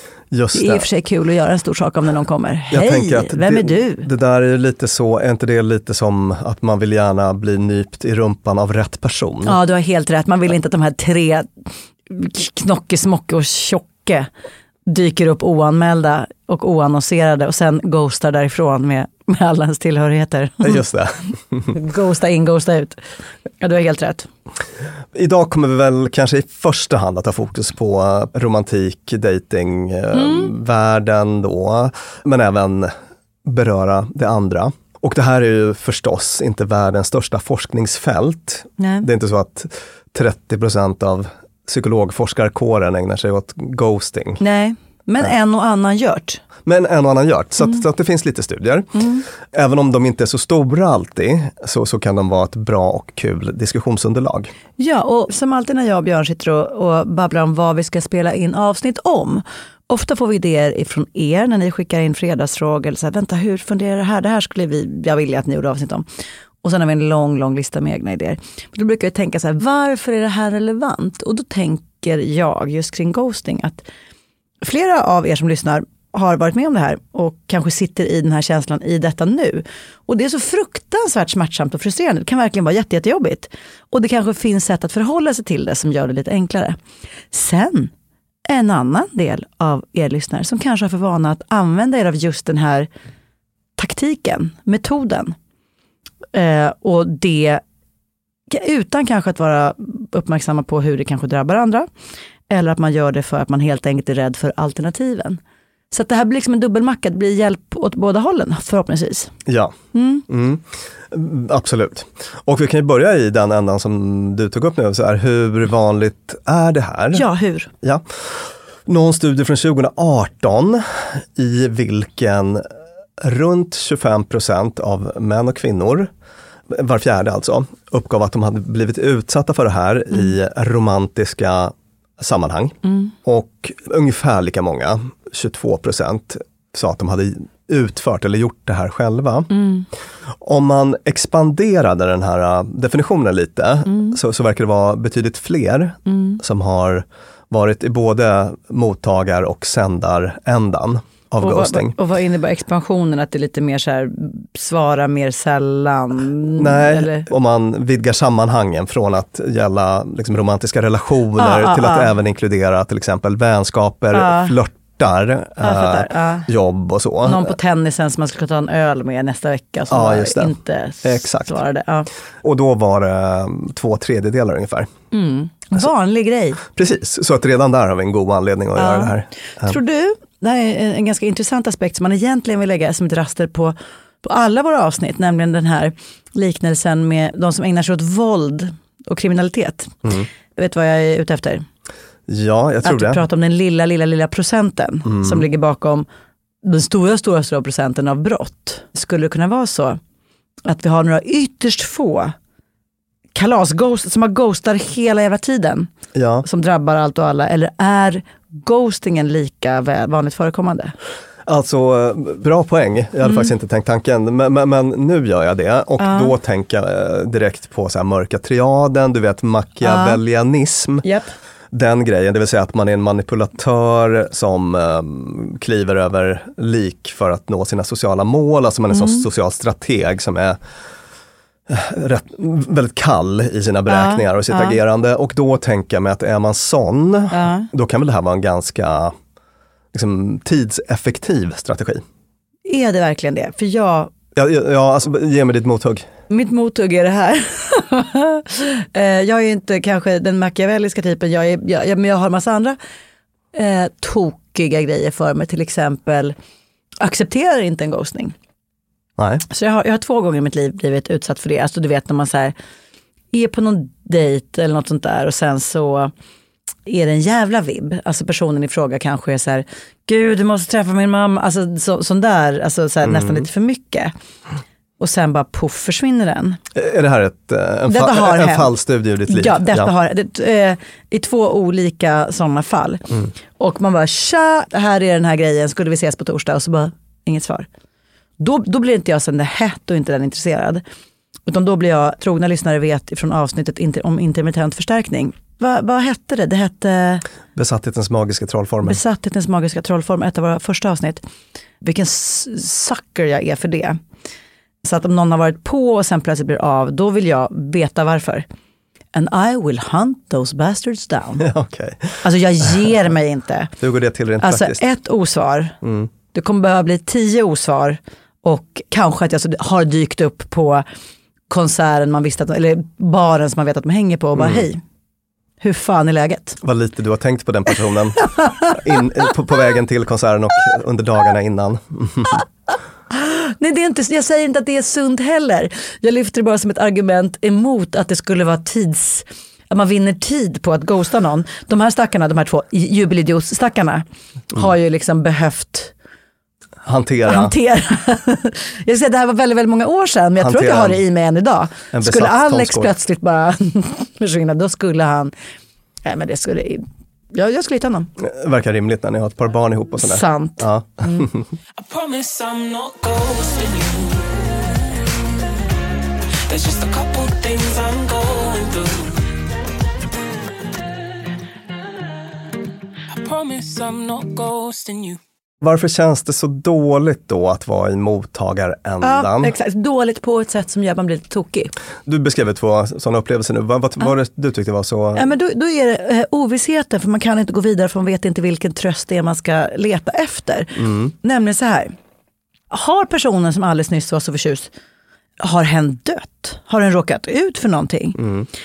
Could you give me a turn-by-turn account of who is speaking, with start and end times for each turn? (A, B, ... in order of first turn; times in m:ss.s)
0:00.3-0:00.8 A
0:00.5-0:04.1 B
0:02.7-0:09.6 A
0:09.4-0:11.5 B
0:12.1-0:14.3 B
0:14.9-0:20.8 B
0:20.6-0:21.7 A
0:21.7-0:23.0 B
0:23.6-0:24.3 B
0:25.1-0:32.9 A
0:30.1-0:30.5 B
0:33.4-0:44.4 A
0:38.8-0:39.1 B
0:44.4-0:46.4 B
0:46.6-0:48.9 A
0:48.9-0:49.2 B
0:49.4-0:54.5 A
0:54.8-1:06.0 B
1:06.6-1:13.8 B
1:14.6-1:26.8 B
1:27.3-1:27.9 B
1:28.4-1:32.9 B
1:33.8-1:35.3 B
1:36.3-1:37.6 B
1:38.5-1:41.9 B
1:42.5-1:45.4 B
1:45.9-1:49.3 B
1:49.4-1:49.7 A
1:49.9-1:50.2 B
1:50.3-1:57.2 A
1:57.1-1:57.7 B
1:57.8-2:02.7 A
2:03.2-2:06.1 A
2:06.7-2:19.5 A
2:12.8-2:13.1 B
2:19.5-2:19.9 B
2:20.4-2:31.9 A
2:23.8-2:24.2 B
2:26.1-2:26.4 B
2:31.4-2:37.3 B
2:36.6-2:47.5 A
2:41.4-2:42.1 B
2:44.1-2:44.6 B
2:45.6-2:46.5 B
2:47.2-2:52.1 B
2:49.9-2:51.6 A
2:52.4-2:54.9 A
2:55.1-2:56.6 B
2:56.7-2:59.8 A
2:58.8-3:10.0 B
3:10.6-3:11.6 B
3:12.3-3:13.2 A
3:12.8-3:16.0 B
3:15.0-3:15.4 A
3:16.6-3:20.0 B
3:20.6-3:22.3 B
3:23.3-3:25.9 B
3:26.1-3:26.4 A
3:26.4-3:30.9 B
3:31.4-3:41.0 A
3:33.2-3:33.5 B
3:36.0-3:36.3 B
3:39.8-3:40.2 B
3:41.0-3:41.3 B
3:41.7-3:50.6 A
3:48.9-3:49.2 B
3:51.7-3:59.1 A
3:53.9-3:54.8 B
3:57.3-3:57.7 B
3:59.9-4:02.0 A
4:02.6-4:04.1 B
4:04.3-4:06.1 A
4:06.3-4:12.8 B
4:13.5-4:16.3 B
4:17.0-4:18.3 B
4:19.2-4:19.4 A
4:19.5-4:22.5 B
4:23.3-4:26.1 B
4:26.8-4:34.1 B
4:33.0-4:33.5 A
4:35.0-4:36.6 B
4:36.7-4:39.9 A
4:37.9-4:38.7 B
4:39.3-4:43.0 B
4:43.6-4:47.7 B
4:48.4-4:50.8 B
4:51.5-4:57.2 B
4:57.5-4:59.0 A
4:58.8-5:01.2 B
5:01.8-5:04.0 B
5:04.8-5:08.4 B
5:09.1-5:11.4 B
5:11.4-5:12.2 A
5:12.2-5:13.7 B
5:13.8-5:14.8 A
5:14.4-5:15.8 B
5:15.8-5:16.1 A
5:16.3-5:20.8 B
5:21.5-5:24.8 B
5:24.4-5:24.6 A
5:25.6-5:26.6 B
5:26.6-5:32.4 A
5:28.4-5:28.7 B
5:33.1-5:45.9 B
5:46.8-5:47.5 A
5:47.3-5:55.3 B
5:50.4-5:51.0 A
5:51.9-5:52.9 A
5:56.0-5:58.1 B
5:58.2-6:01.5 A
6:00.0-6:01.2 B
6:01.8-6:04.5 C
6:06.5-6:09.2 C
6:13.1-6:15.2 C
6:15.6-6:19.5 A
6:19.0-6:21.7 B
6:22.0-6:25.3 A
6:25.2-6:31.9 B
6:30.8-6:31.1 A
6:32.7-6:34.7 B
6:35.4-6:38.2 B
6:38.2-6:38.5 A